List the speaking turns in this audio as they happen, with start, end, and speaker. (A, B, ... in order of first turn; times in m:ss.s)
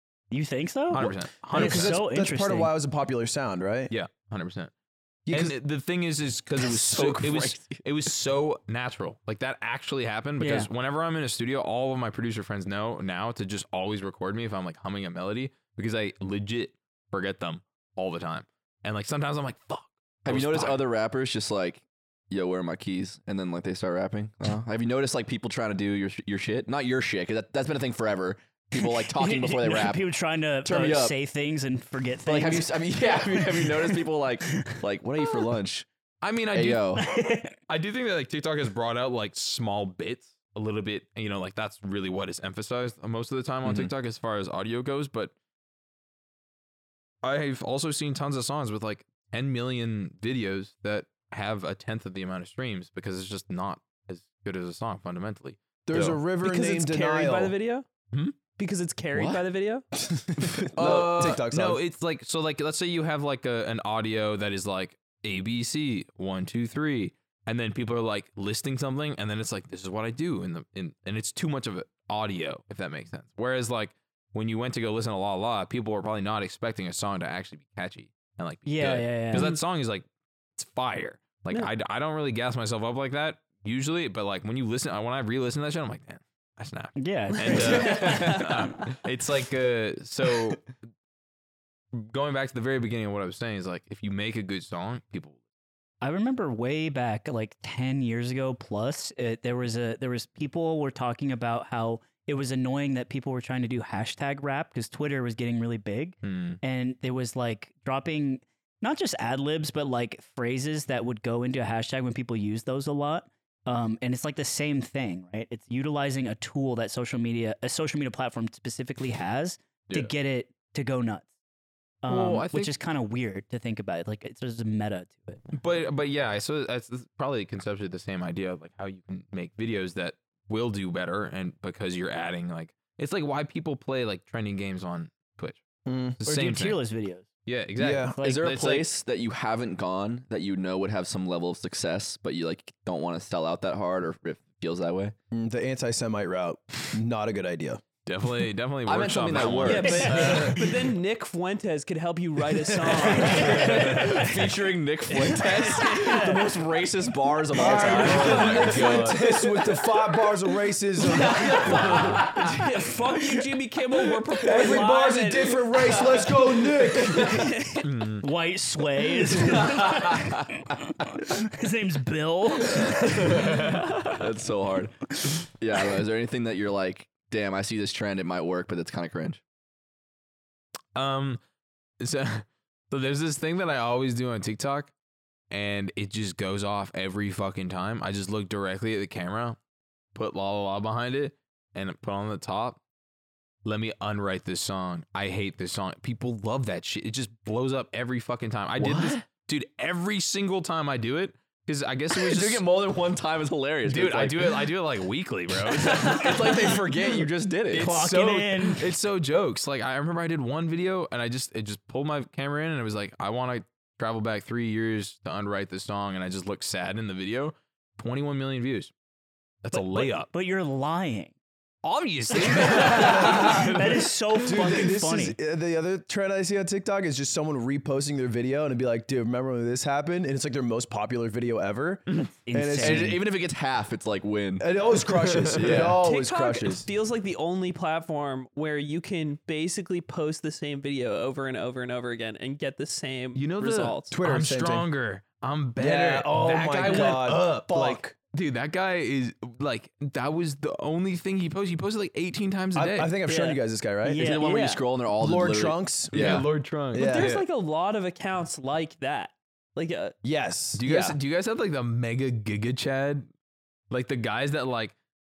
0:00.3-0:02.7 A
0:00.9-0:02.0 B
0:01.5-0:03.9 C
0:03.9-0:04.7 B
0:05.3-0:05.6 C
0:05.3-0:20.8 B
0:06.6-0:07.8 D
0:10.4-0:10.7 A
0:20.2-0:30.1 D
0:28.7-0:34.1 A
0:30.6-0:31.2 D
0:32.2-0:35.9 D
0:36.2-0:36.9 B
0:36.5-0:37.1 D
0:37.0-0:37.6 A
0:37.7-0:45.3 B
0:43.6-0:43.9 D
0:47.2-0:56.2 B
0:55.9-0:57.6 C
0:56.4-0:57.9 E
0:58.1-0:58.4 B
0:58.5-0:59.9 E
0:59.1-0:59.4 D
1:00.1-1:01.8 C
1:00.4-1:01.0 D
1:00.8-1:30.7 B
1:18.7-1:19.6 A
1:27.0-1:28.5 A
1:27.4-1:28.7 E
1:27.7-1:28.3 D
1:31.9-1:35.4 B
1:36.0-2:01.3 A
1:46.2-1:46.6 B
2:02.0-2:05.4 A
2:02.1-2:02.7 B
2:05.5-2:15.6 B
2:15.9-2:16.2 C
2:16.1-2:16.8 B
2:16.2-2:17.3 A
2:17.5-2:18.9 B
2:17.8-2:18.2 C
2:18.0-2:18.5 A
2:18.2-2:25.1 D
2:25.3-2:27.8 C
2:28.1-2:30.9 B
2:28.9-2:30.5 D
2:29.6-2:34.4 E
2:32.8-2:33.1 C
2:33.2-2:34.4 B
2:33.2-2:39.0 D
2:35.2-2:36.6 E
2:37.5-2:42.5 C
2:37.6-2:39.3 B
2:37.8-2:39.2 E
2:41.0-2:47.9 E
2:41.6-2:42.4 B
2:44.4-2:47.6 C
2:47.0-2:47.3 D
2:47.8-2:48.2 B
2:48.2-2:53.6 A
2:49.5-2:50.5 D
2:52.6-2:59.4 D
2:53.3-2:53.8 B
3:01.0-3:01.4 B
3:02.0-3:04.9 B
3:05.5-3:09.6 B
3:10.2-3:12.8 B
3:13.6-3:22.7 B
3:18.8-3:19.2 D
3:22.1-3:24.7 D
3:23.8-3:26.8 B
3:25.8-3:27.9 D
3:27.7-3:38.9 B
3:27.7-3:28.9 A
3:39.6-3:40.3 B
3:39.7-3:41.4 A
3:41.8-3:44.4 B
3:42.4-3:45.4 A
3:42.9-3:43.6 C
3:44.5-3:53.2 C
3:52.4-3:53.2 A
3:52.8-3:56.0 D
3:54.6-3:56.9 C
3:55.8-4:04.1 E
4:03.4-4:13.1 B
4:04.1-4:04.9 C
4:05.8-4:08.1 C
4:12.8-4:14.3 C
4:13.3-4:14.8 A
4:14.2-4:16.5 D
4:15.2-4:17.4 C
4:16.1-4:17.4 B
4:16.9-4:20.2 E
4:20.2-4:21.2 C
4:20.8-4:23.3 B
4:23.9-4:25.0 B